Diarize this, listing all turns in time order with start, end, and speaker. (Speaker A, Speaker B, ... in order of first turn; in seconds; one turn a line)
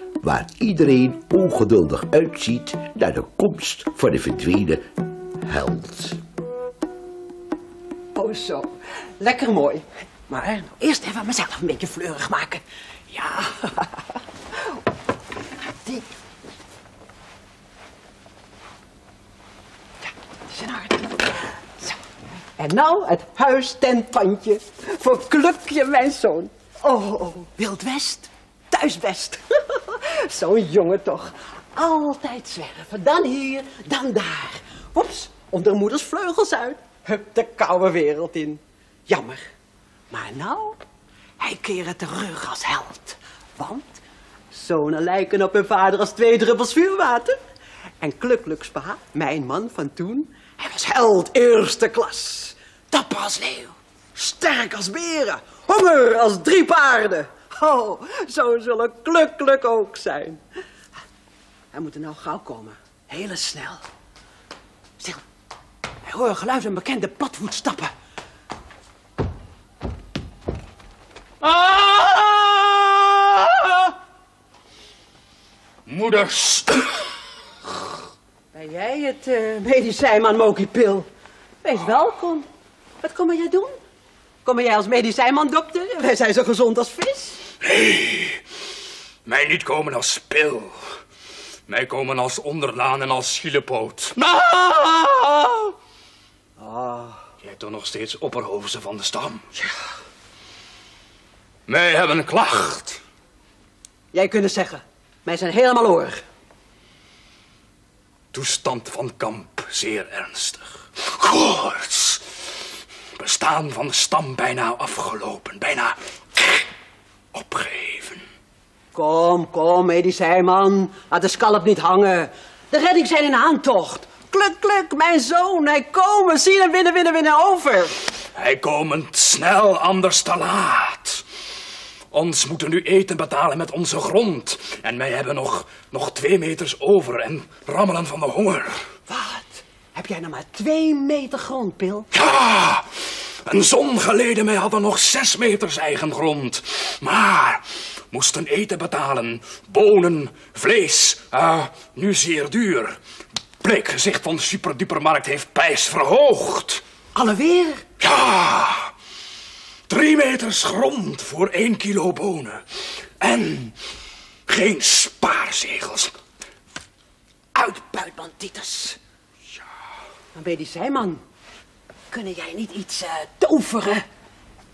Speaker A: 0.2-4.9
Speaker A: 5.4-6.2
Speaker B: 8.2-14.8
Speaker B: 20.0-22.0
Speaker B: 22.6-39.5
Speaker B: 40.1-40.8
Speaker B: 41.4-47.4
Speaker B: 48.0-60.4
Speaker B: 61.7-63.9
Speaker B: 66.0-67.9
Speaker B: 71.4-73.9
Speaker C: 75.9-76.8
Speaker B: 78.5-81.1
Speaker B: 81.6-82.5
Speaker B: 83.0-83.8
Speaker B: 84.5-87.5
Speaker C: 87.6-88.4
Speaker C: 89.2-90.8
Speaker C: 91.7-94.2
Speaker B: 96.6-97.2
Speaker C: 97.4-99.5
Speaker C: 101.7-103.0
Speaker B: 104.1-106.2
Speaker C: 108.3-112.5
Speaker C: 113.2-116.0
Speaker C: 117.3-118.2
Speaker B: 118.9-128.0
Speaker C: 128.3-131.2
Speaker C: 132.1-138.8
Speaker B: 139.1-142.1
Speaker C: 142.1-153.0
Speaker C: 153.6-156.8
Speaker B: 157.2-157.9
Speaker C: 158.0-158.9
Speaker C: 159.9-162.6
Speaker C: 163.2-163.8
Speaker C: 164.5-166.1
Speaker B: 167.5-169.0
Speaker B: 170.3-171.2
Speaker B: 172.1-174.1